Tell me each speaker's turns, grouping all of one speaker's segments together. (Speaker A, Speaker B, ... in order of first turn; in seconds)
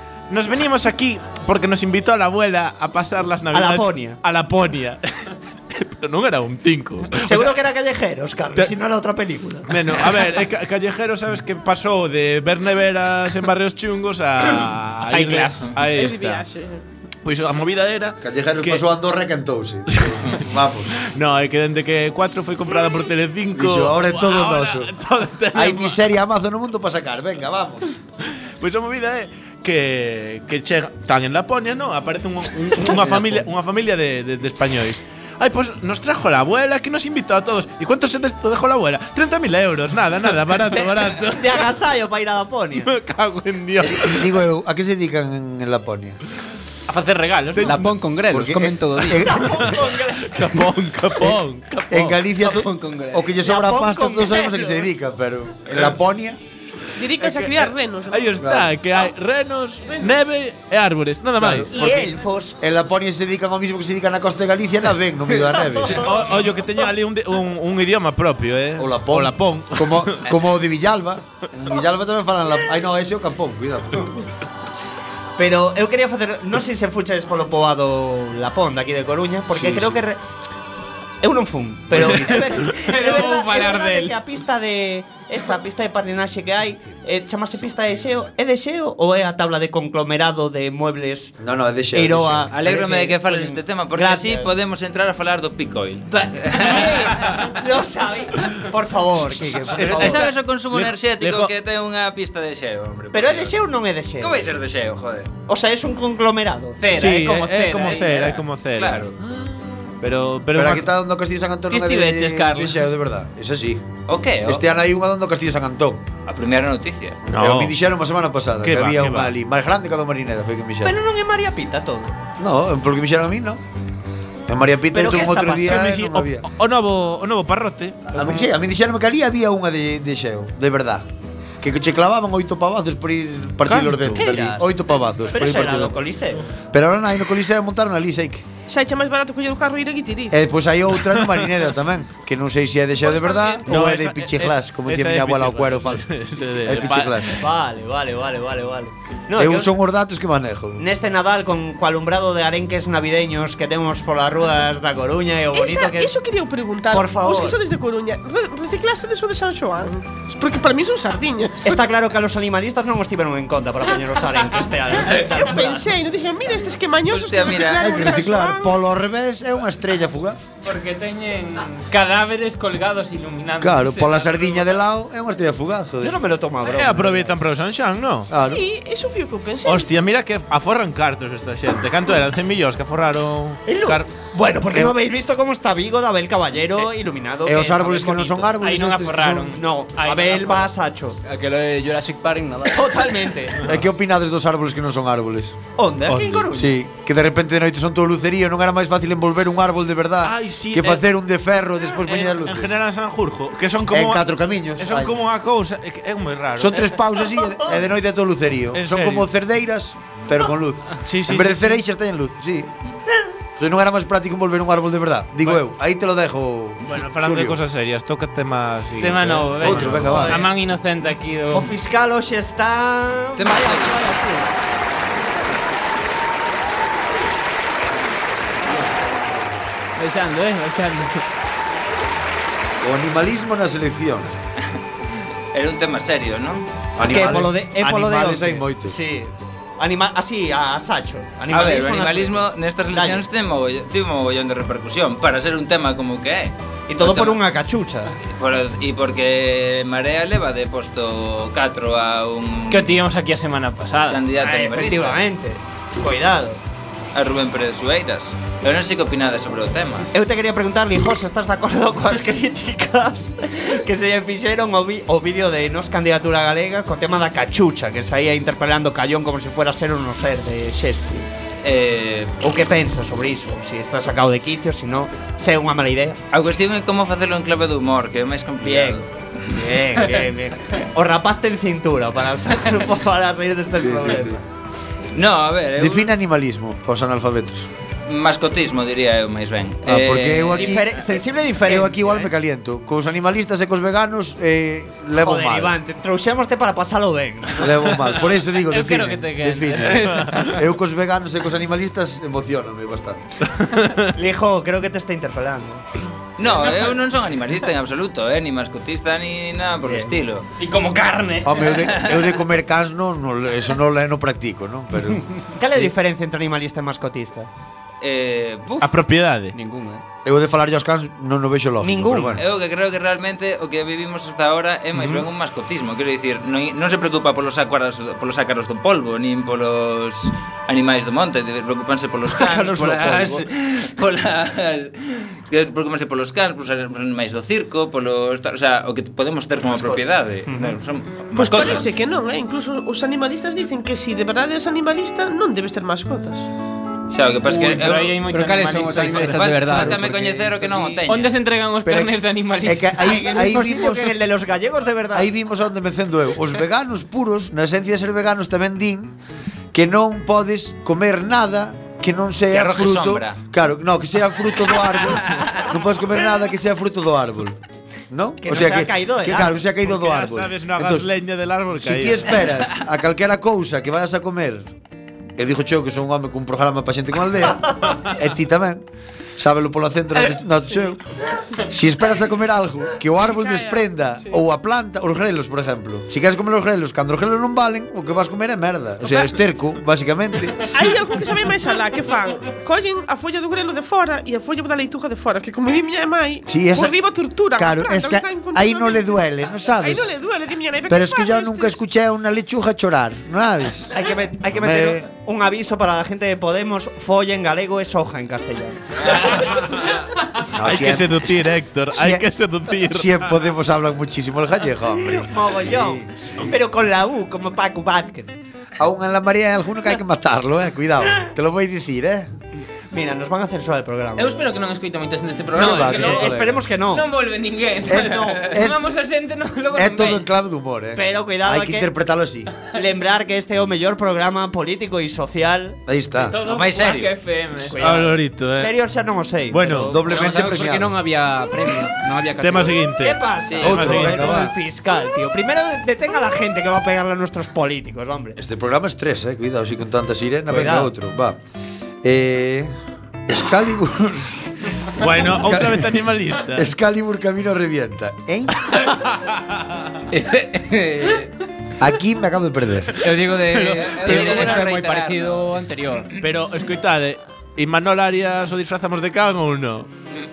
Speaker A: 0.3-7.5, 9.7-16.5, 17.2-18.8, 19.9-20.2, 21.0-26.0, 28.6-41.7, 42.8-44.3, 47.5-47.9, 49.6-52.2, 57.3-61.8, 66.0-70.2, 82.0-82.2, 99.7-101.5, 107.0-109.1, 110.0-110.9, 117.3-117.8, 118.6-119.3, 125.7-128.1, 133.7-134.2, 143.7-147.4, 176.6-178.3, 179.6-184.1, 196.1-196.5, 200.2-201.0, 202.1-204.3, 204.8-207.0, 208.7-209.3, 211.1-211.8, 216.8-220.3, 300.2-300.5, 303.5-304.1, 318.8-319.5, 324.9-325.2, 369.8-372.3, 409.7-410.0, 410.6-413.3, 437.8-438.7, 439.5-440.0, 442.4-444.4, 455.0-456.7, 458.8-459.6, 463.3-464.7, 466.2-469.9
Speaker B: 3.5-4.2, 7.2-10.0, 40.8-42.9, 49.1-50.4, 53.4-54.9, 61.7-62.6, 65.3-66.8, 75.4-80.2, 81.2-91.4, 91.9-94.5, 96.1-100.3, 103.1-104.4, 105.5-106.9, 120.8-122.2, 124.9-125.8, 134.1-134.8, 135.3-136.4, 143.0-143.7, 147.4-149.8, 150.8-156.2, 156.9-157.6, 161.6-165.9, 168.0-168.7, 176.0-177.5, 183.7-188.6, 189.5-191.2, 192.7-193.7, 195.8-196.8, 219.8-220.5, 221.5-224.4, 237.1-243.2, 246.9-248.1, 254.4-256.6, 260.1-271.3, 272.4-276.2, 278.6-284.4, 290.6-292.0, 295.2-298.2, 304.2-305.8, 309.8-310.2, 315.6-317.5, 321.8-322.4, 332.3-333.4, 339.8-340.8, 353.0-355.3, 368.4-369.6, 403.9-409.7, 414.9-418.4, 422.9-424.5, 425.6-427.1, 427.9-428.5, 430.9-431.9, 432.7-435.8, 437.7-440.7, 443.0-448.4, 450.5-450.9
Speaker C: 15.0-15.8, 46.9-47.8, 82.8-84.2, 106.8-108.3, 111.7-112.9, 170.6-174.8, 188.6-190.7, 219.0-221.8, 230.0-231.2, 252.7-254.2, 298.7-300.5, 306.5-307.0, 310.6-311.8, 347.5-349.9, 351.1-353.5, 390.9-391.3, 424.2-430.3, 436.2-437.8
Speaker D: 15.9-16.8, 57.0-58.4, 59.9-60.1, 138.7-140.4, 155.5-161.9, 165.2-168.7, 178.3-179.9, 341.4-346.5, 383.3-383.9, 390.7-401.8
Speaker E: 18.2-21.1, 23.5-24.9, 25.5-27.9, 32.9-33.4, 43.8-46.2, 48.3-49.7, 51.9-56.4, 58.4-58.8, 61.4-62.1, 62.6-66.1, 68.8-74.3, 79.5-80.0, 81.9-82.4, 91.4-92.5, 110.5-113.8, 114.4-116.1, 117.4-121.0, 122.4-123.6, 124.5-126.5, 128.1-131.1, 131.6-136.0, 136.7-138.4, 140.3-147.4, 149.4-150.9, 167.8-170.4, 173.6-176.2, 178.3-178.6, 184.7-185.0, 187.4-189.6, 193.6-195.6, 196.5-202.7, 203.9-205.2, 206.6-212.7, 213.6-217.6, 219.6-220.4, 232.8-234.4, 237.0-239.0, 283.8-284.4, 285.8-287.7, 289.9-290.9, 291.6-295.8, 297.6-303.3, 311.4-315.2, 320.2-322.4, 351.9-354.2, 355.1-359.1, 359.7-367.6, 368.1-371.1, 371.8-374.7, 375.4-378.9, 379.4-381.0, 381.7-390.8, 396.5-397.0, 397.5-400.1, 400.9-403.9, 404.5-405.1, 410.5-411.4, 411.9-412.2, 412.8-416.6, 418.8-422.3, 425.6-426.6, 427.9-428.8, 429.8-432.5, 435.9-436.4, 439.9-441.0, 443.6-444.6, 448.4-451.4, 452.0-452.7, 453.3-454.3, 455.3-455.9, 456.5-458.8, 461.8-462.9
Speaker F: 47.6-49.5, 52.4-53.4, 191.2-193.1, 319.5-320.0, 348.3-351.0, 440.1-442.8, 460.1-461.3, 463.0-466.1
Speaker G: 92.5-97.4, 99.6-103.6, 104.2-105.3, 107.8-109.2, 114.1-114.7, 116.3-117.2, 167.1-168.0, 223.4-224.1, 235.5-236.6, 241.5-247.4, 248.3-252.9, 254.1-255.2, 257.1-260.1, 271.6-272.4, 276.3-279.1, 279.9-280.2, 285.1-286.1, 288.1-291.0, 306.4-310.5, 311.8-312.2, 318.0-318.9, 322.4-341.9, 347.1-348.2, 349.1-351.3, 362.5-363.4, 365.2-365.6, 409.0-409.4, 436.4-437.1, 443.4-443.9, 463.8-465.5